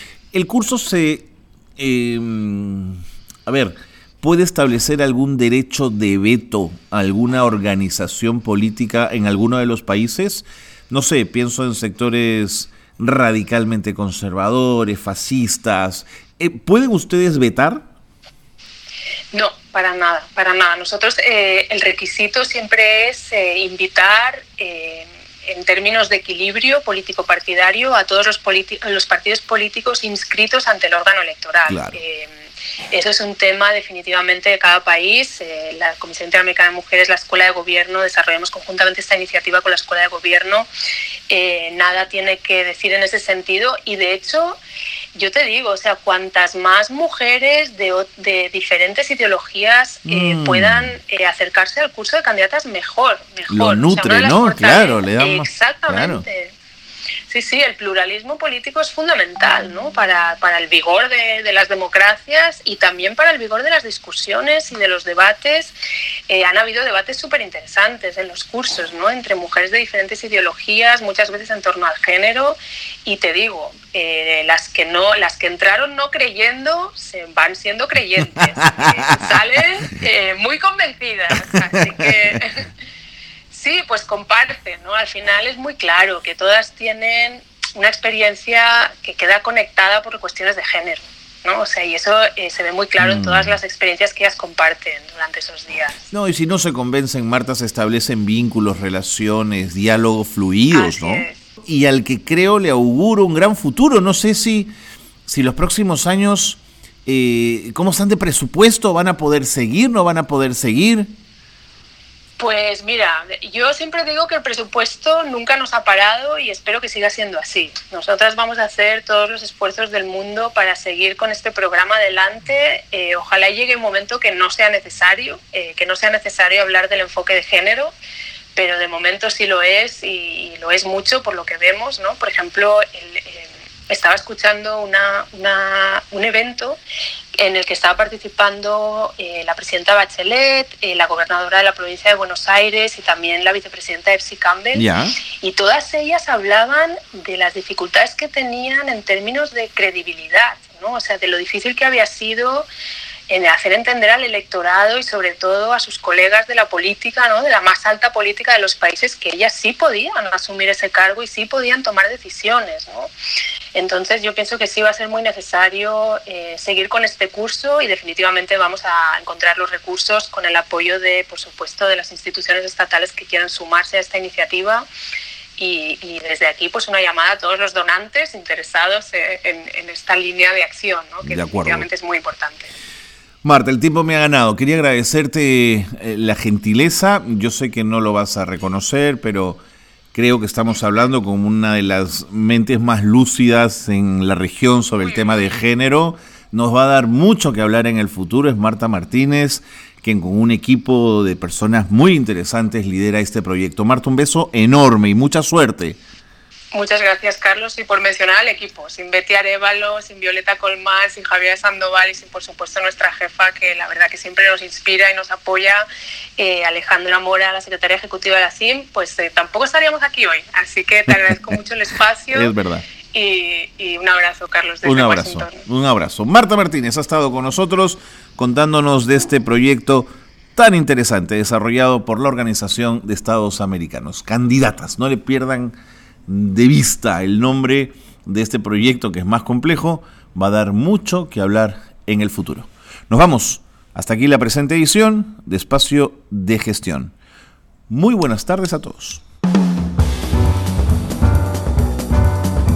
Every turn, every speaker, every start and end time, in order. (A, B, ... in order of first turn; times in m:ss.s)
0:00.3-0:17.8 A
0:19.3-0:40.7 B
0:31.7-0:32.0 A
0:41.3-0:44.6 B
0:45.1-0:56.5 B
0:50.0-0:50.9 A
0:53.5-0:56.2 A
0:57.3-1:05.7 B
1:06.3-1:22.7 B
1:18.4-1:19.3 A
1:21.5-1:22.1 A
1:23.5-1:36.1 B
1:33.0-1:33.6 A
1:36.1-1:44.7 A
1:40.7-1:41.4 B
1:45.3-1:51.1 A
1:52.4-2:07.9 B
2:08.5-2:16.8 B
2:17.4-2:24.8 B
2:24.7-2:25.2 A
2:25.4-2:32.7 B
2:33.3-2:43.1 B
2:43.7-2:54.8 B
2:55.6-3:02.7 B
3:01.2-3:01.9 A
3:03.4-3:09.6 A
3:10.1-3:26.0 A
3:26.7-3:35.8 B
3:36.4-3:42.5 B
3:42.3-3:42.8 A
3:43.1-3:45.6 B
3:44.8-3:55.7 A
3:56.3-4:07.1 A
4:07.9-4:09.2 A